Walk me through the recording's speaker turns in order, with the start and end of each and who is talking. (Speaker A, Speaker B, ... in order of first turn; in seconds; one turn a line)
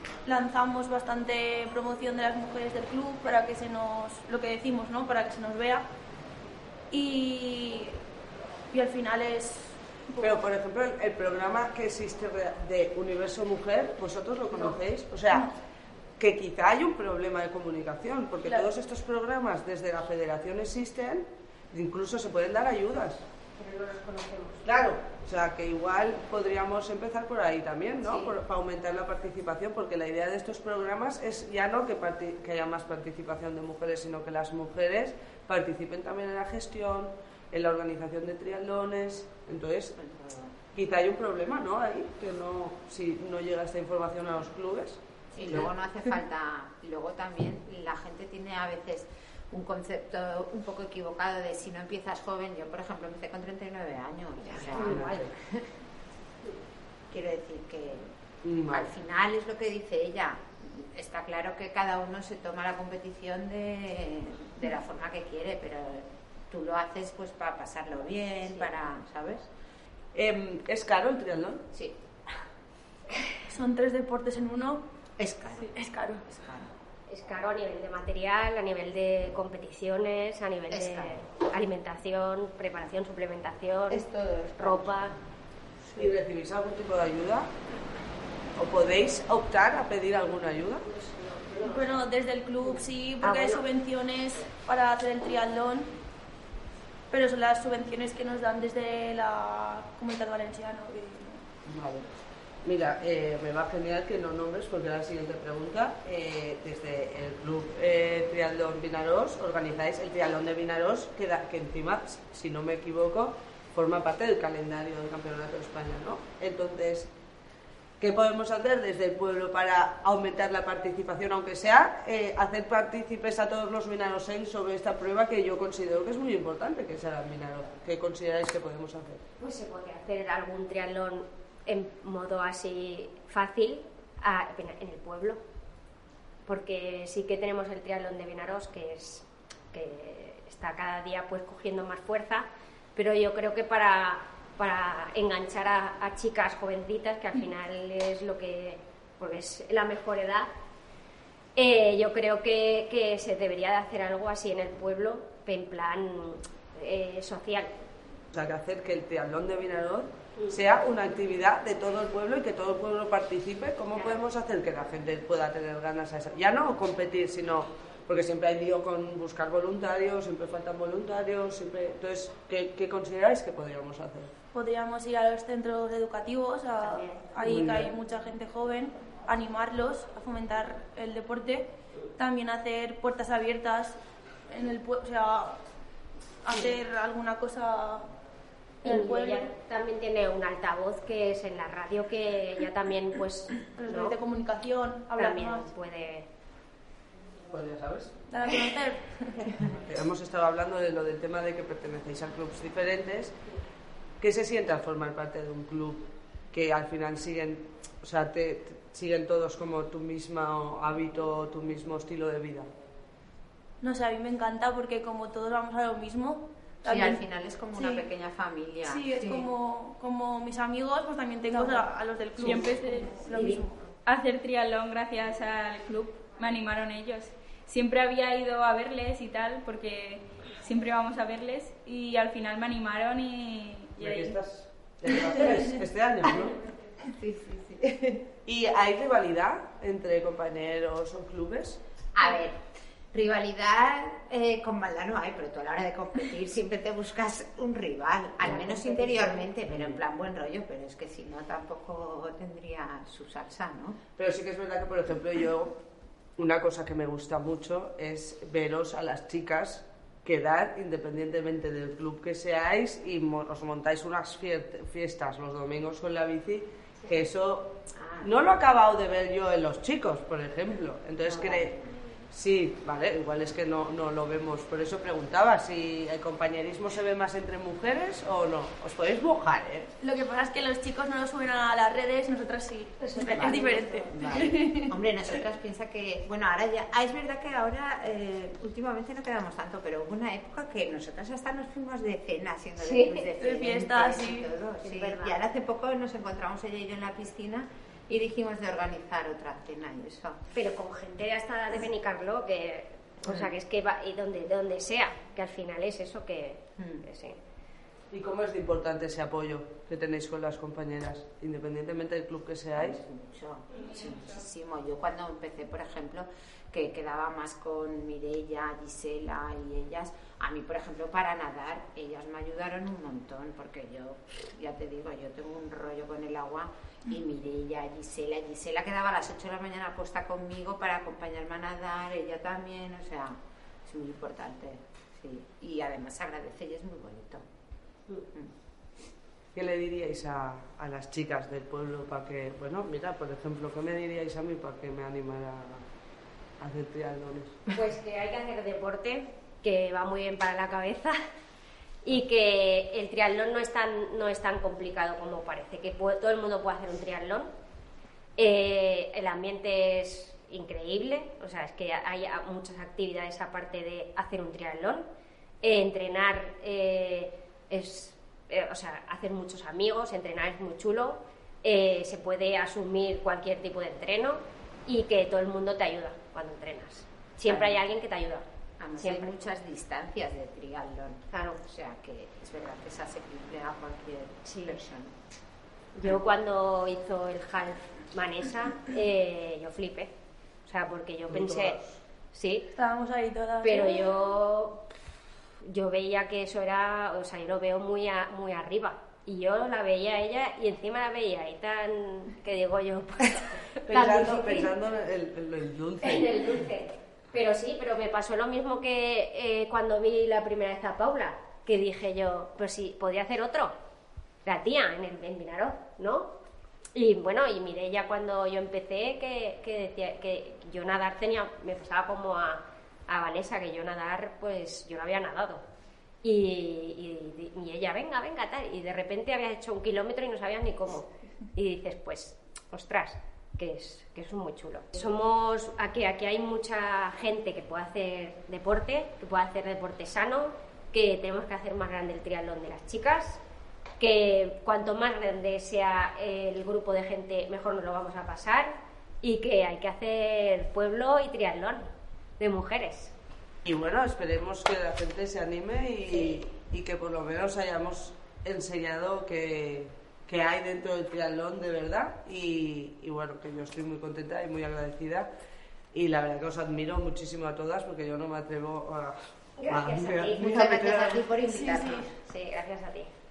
Speaker A: 0.2-5.8
Speaker A: 6.9-8.0
Speaker A: 8.7-10.3
Speaker B: 10.2-15.5
Speaker B: 16.2-23.2
Speaker C: 23.6-24.6
Speaker B: 24.6-39.9
Speaker D: 40.0-40.6
Speaker B: 40.7-45.7
Speaker D: 45.3-55.7
Speaker C: 54.5-55.1
Speaker B: 54.7-55.3
Speaker D: 57.1-58.1
Speaker B: 58.4-58.9
Speaker D: 58.7-69.5
Speaker B: 70.1-71.7
Speaker A: 73.5-74.8
Speaker D: 75.2-75.8
Speaker A: 75.6-76.4
Speaker D: 76.4-76.7
Speaker C: 77.1-84.1
Speaker D: 80.7-81.2
Speaker D: 83.9-85.1
Speaker C: 84.6-85.1
Speaker B: 85.9-87.5
Speaker B: 88.5-90.8
Speaker C: 90.9-91.9
Speaker A: 91.6-95.9
Speaker C: 93.2-93.6
Speaker A: 97.1-101.4
Speaker B: 101.7-102.1
Speaker B: 102.6-117.1
Speaker B: 118.0-129.2
Speaker C: 129.4-135.4
Speaker C: 136.4-150.5
Speaker C: 151.6-157.7
Speaker B: 158.3-174.3
Speaker A: 174.5-185.6
Speaker B: 177.4-177.9
Speaker A: 186.4-188.1
Speaker A: 188.8-189.5
Speaker C: 188.8-194.2
Speaker A: 193.7-195.7
Speaker C: 195.2-196.3
Speaker B: 197.5-198.1
Speaker A: 198.3-199.7
Speaker B: 199.6-203.3
Speaker B: 204.2-212.7
Speaker A: 213.8-217.2
Speaker D: 216.8-219.5
Speaker A: 217.7-218.0
Speaker A: 218.8-223.9
Speaker E: 222.4-223.1
Speaker C: 223.3-223.6
Speaker E: 224.0-234.3
Speaker B: 234.0-236.6
Speaker D: 237.0-238.3
Speaker B: 238.4-241.8
Speaker D: 242.1-242.6
Speaker D: 243.1-254.0
Speaker C: 248.4-249.5
Speaker B: 254.2-255.8
Speaker B: 256.4-271.7
Speaker D: 267.9-268.3
Speaker D: 271.2-272.3
Speaker B: 272.3-279.9
Speaker A: 280.0-284.9
Speaker C: 283.1-283.6
Speaker D: 283.3-300.4
Speaker C: 292.8-293.3
Speaker A: 293.4-294.5
Speaker C: 294.8-295.4
Speaker C: 300.5-307.4
Speaker D: 306.8-307.0
Speaker B: 308.1-313.0
Speaker D: 312.8-337.4
Speaker B: 339.5-345.9
Speaker B: 346.6-347.6
Speaker C: 347.7-351.1
Speaker C: 352.0-357.5
Speaker C: 358.4-365.1
Speaker C: 365.6-378.4
Speaker D: 377.5-377.8
Speaker D: 378.8-385.1
Speaker C: 379.0-379.3
Speaker C: 381.3-381.6
Speaker C: 384.4-384.8
Speaker C: 385.9-390.1
Speaker C: 390.6-391.8
Speaker B: 391.3-392.0
Speaker C: 392.3-392.7
Speaker A: 392.7-394.1
Speaker C: 393.6-394.9
Speaker C: 395.6-404.7
Speaker B: 403.8-406.6
Speaker C: 406.0-413.7
Speaker C: 414.4-416.3
Speaker C: 416.9-425.6
Speaker C: 426.2-443.4
Speaker C: 444.0-451.9
Speaker C: 452.4-453.1
Speaker B: 453.6-465.3
Speaker B: 465.9-471.2
Speaker C: 469.6-470.7
Speaker D: 470.4-472.1
Speaker C: 471.5-473.1
Speaker A: 471.5-471.9